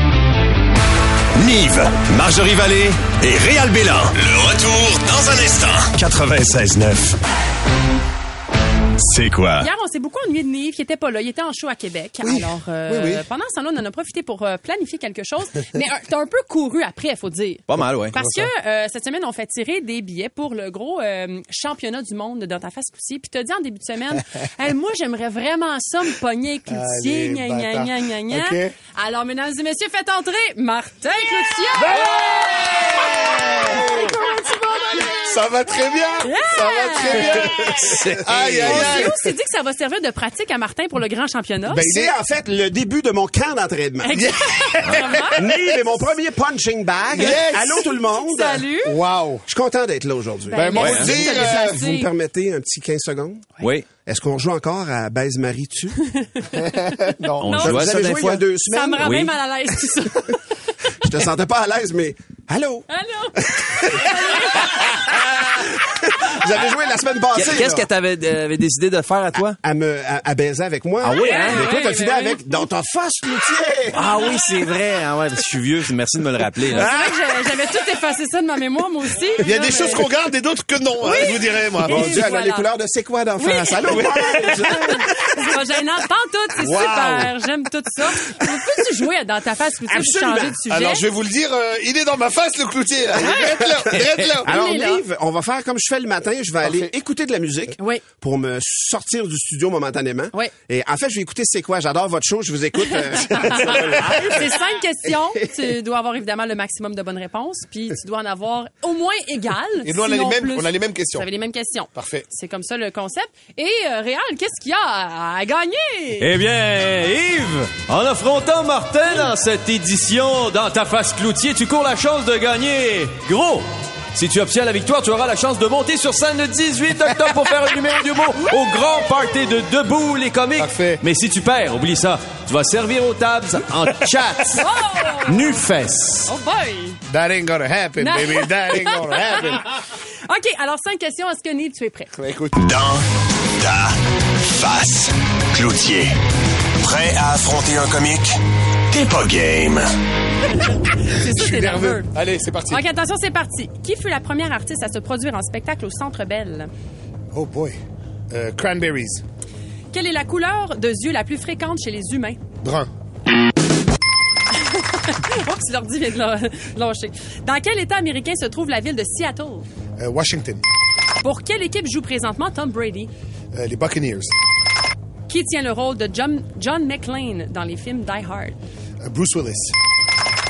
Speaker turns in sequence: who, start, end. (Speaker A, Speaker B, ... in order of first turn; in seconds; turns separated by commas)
Speaker A: 1.4-7.2, Speaker A: 9.0-9.7, Speaker B: 9.6-34.9, Speaker C: 12.2-13.2, Speaker D: 17.7-18.2, Speaker C: 18.1-18.5, Speaker C: 26.7-28.7, Speaker C: 31.8-34.1, Speaker C: 34.9-39.2, Speaker B: 36.2-37.7, Speaker D: 37.9-39.0, Speaker E: 38.3-38.7, Speaker B: 38.6-41.9, Speaker E: 41.7-44.3, Speaker C: 41.8-42.1, Speaker B: 44.0-45.7, Speaker C: 44.8-45.5, Speaker E: 45.4-48.7, Speaker C: 47.1-47.9, Speaker B: 48.2-49.0, Speaker C: 48.8-49.5, Speaker E: 49.5-53.5, Speaker B: 50.5-52.1, Speaker D: 50.8-51.2, Speaker D: 53.6-53.9, Speaker E: 54.0-56.0, Speaker B: 56.0-57.9, Speaker C: 56.5-57.8, Speaker D: 57.4-58.4, Speaker E: 57.6-59.2, Speaker B: 58.7-60.4, Speaker D: 59.0-59.3, Speaker E: 61.0-62.9, Speaker B: 62.9-65.1, Speaker E: 63.4-64.0, Speaker E: 66.2-67.9, Speaker D: 67.3-69.6, Speaker E: 69.3-74.0, Speaker D: 71.0-71.8, Speaker B: 71.2-72.4, Speaker D: 73.9-76.9, Speaker B: 76.7-80.1, Speaker C: 79.4-82.2, Speaker B: 81.0-82.7, Speaker E: 81.8-84.9, Speaker B: 83.4-91.1, Speaker C: 84.0-85.0, Speaker C: 86.6-87.3, Speaker E: 86.7-87.2, Speaker E: 89.9-90.5, Speaker C: 90.6-94.6, Speaker B: 93.2-93.6, Speaker E: 94.4-104.4, Speaker B: 94.5-95.0, Speaker C: 96.6-96.9, Speaker B: 97.8-98.0, Speaker B: 102.8-116.3, Speaker C: 109.8-111.3, Speaker C: 112.0-112.3, Speaker D: 116.2-134.7, Speaker C: 130.6-131.0, Speaker B: 134.5-135.6, Speaker D: 135.3-136.3, Speaker B: 136.2-137.0, Speaker C: 137.1-139.7, Speaker B: 138.0-139.7, Speaker B: 140.3-142.1, Speaker C: 142.1-142.6, Speaker A: 142.6-143.0, Speaker A: 143.6-144.0, Speaker A: 144.5-146.1, Speaker A: 146.8-148.3, Speaker A: 148.9-149.9, Speaker B: 150.6-152.1, Speaker C: 151.3-152.8, Speaker B: 152.7-156.7, Speaker C: 157.3-157.8, Speaker C: 158.3-159.2, Speaker B: 159.9-162.4, Speaker C: 162.6-162.9, Speaker B: 164.7-169.7, Speaker C: 170.0-170.6, Speaker B: 171.2-173.1, Speaker C: 173.5-174.3, Speaker B: 175.3-178.6, Speaker C: 179.0-179.8